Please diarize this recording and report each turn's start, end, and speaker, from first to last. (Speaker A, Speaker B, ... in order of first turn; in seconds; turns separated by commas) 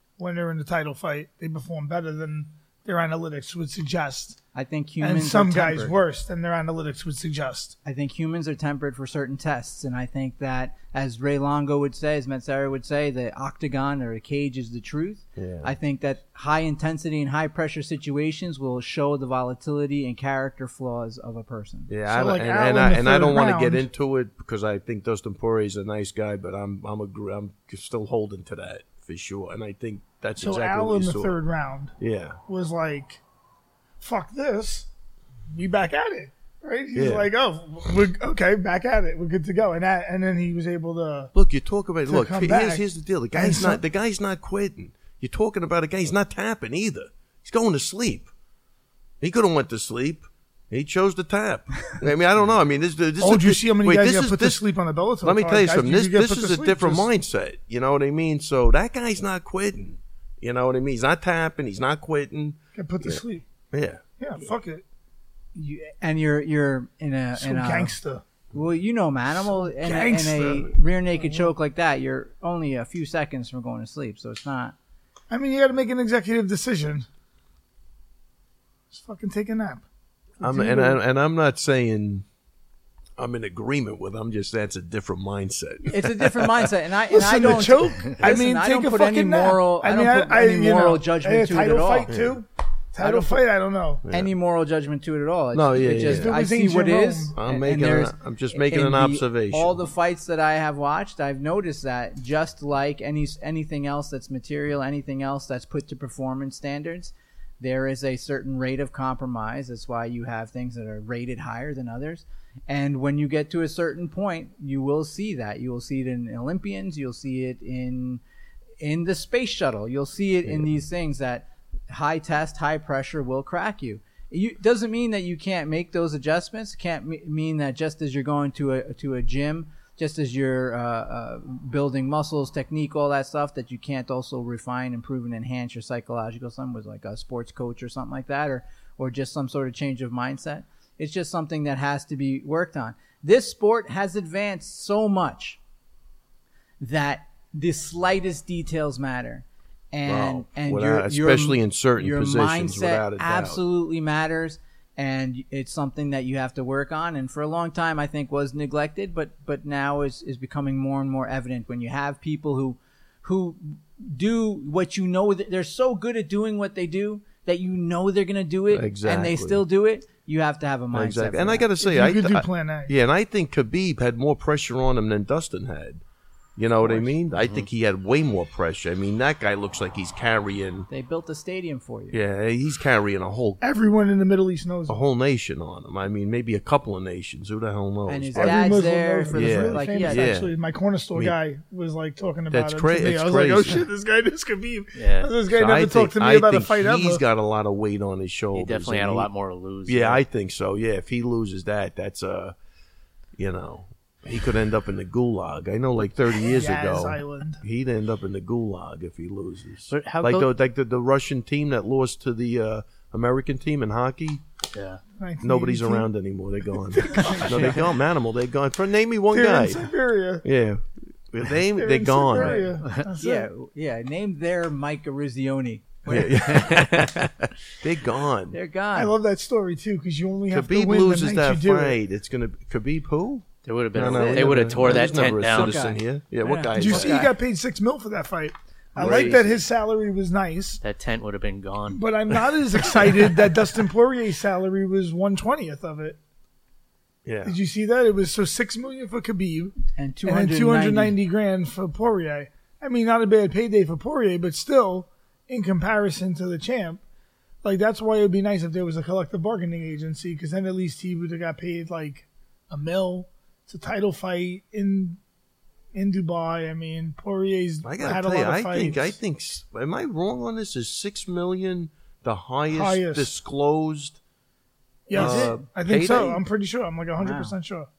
Speaker A: 0.2-4.4, Speaker B: 4.5-6.0, Speaker A: 5.0-7.8, Speaker B: 7.8-21.9, Speaker C: 15.4-15.7, Speaker C: 21.9-31.4, Speaker A: 22.1-23.9, Speaker A: 30.4-31.9, Speaker C: 32.0-32.4, Speaker A: 32.5-33.2, Speaker A: 34.0-34.9, Speaker A: 35.5-41.3, Speaker C: 36.9-37.3, Speaker C: 41.3-48.3, Speaker A: 42.1-43.8, Speaker C: 49.2-54.6, Speaker A: 53.2-57.1, Speaker C: 55.2-64.0, Speaker A: 62.8-63.5, Speaker A: 64.2-64.8, Speaker B: 65.5-68.0, Speaker A: 67.4-68.2, Speaker B: 68.5-74.8, Speaker A: 69.4-71.5, Speaker A: 75.3-77.1, Speaker A: 78.9-79.8, Speaker A: 80.4-81.0, Speaker C: 80.4-82.2, Speaker C: 83.2-86.7, Speaker B: 85.9-92.1, Speaker A: 87.1-94.0, Speaker C: 92.1-92.4, Speaker B: 93.0-93.4, Speaker C: 94.0-94.3, Speaker B: 94.1-118.2, Speaker C: 95.5-96.3, Speaker A: 95.9-97.4, Speaker C: 97.3-99.8, Speaker B: 118.8-145.6, Speaker C: 120.5-120.7, Speaker B: 146.8-171.7, Speaker C: 150.1-153.6, Speaker C: 168.7-169.6, Speaker C: 170.9-176.0, Speaker A: 171.8-172.9, Speaker C: 176.6-180.9, Speaker D: 177.4-177.7, Speaker B: 180.9-182.2, Speaker C: 182.1-183.6, Speaker A: 183.6-185.0, Speaker C: 184.9-188.8, Speaker B: 188.1-190.3, Speaker A: 188.4-197.2, Speaker C: 189.3-190.5, Speaker C: 192.5-193.9, Speaker D: 194.9-195.3, Speaker C: 195.5-199.3, Speaker D: 198.5-200.2, Speaker C: 199.9-202.6, Speaker C: 203.4-214.4, Speaker A: 206.4-207.6, Speaker D: 209.9-210.5, Speaker D: 214.7-215.0, Speaker A: 215.2-216.1, Speaker C: 215.4-219.9, Speaker A: 216.9-217.8, Speaker D: 217.3-217.8, Speaker A: 219.3-220.4, Speaker C: 220.4-222.7, Speaker A: 221.8-223.5, Speaker B: 222.3-226.5, Speaker C: 226.1-228.6, Speaker D: 226.5-227.0, Speaker B: 228.5-229.2, Speaker A: 228.9-232.0, Speaker C: 230.5-237.3, Speaker D: 233.7-235.8, Speaker B: 234.0-237.3, Speaker A: 236.7-240.8, Speaker C: 239.0-239.5, Speaker D: 239.0-239.3, Speaker D: 240.8-243.6, Speaker A: 241.9-246.2, Speaker C: 247.2-247.6, Speaker A: 247.4-257.0, Speaker B: 249.9-251.2, Speaker A: 257.6-265.2, Speaker A: 265.9-269.2, Speaker C: 267.8-274.2, Speaker A: 272.7-273.3, Speaker A: 275.1-277.9, Speaker B: 275.1-275.6, Speaker C: 275.1-276.4, Speaker B: 277.2-277.6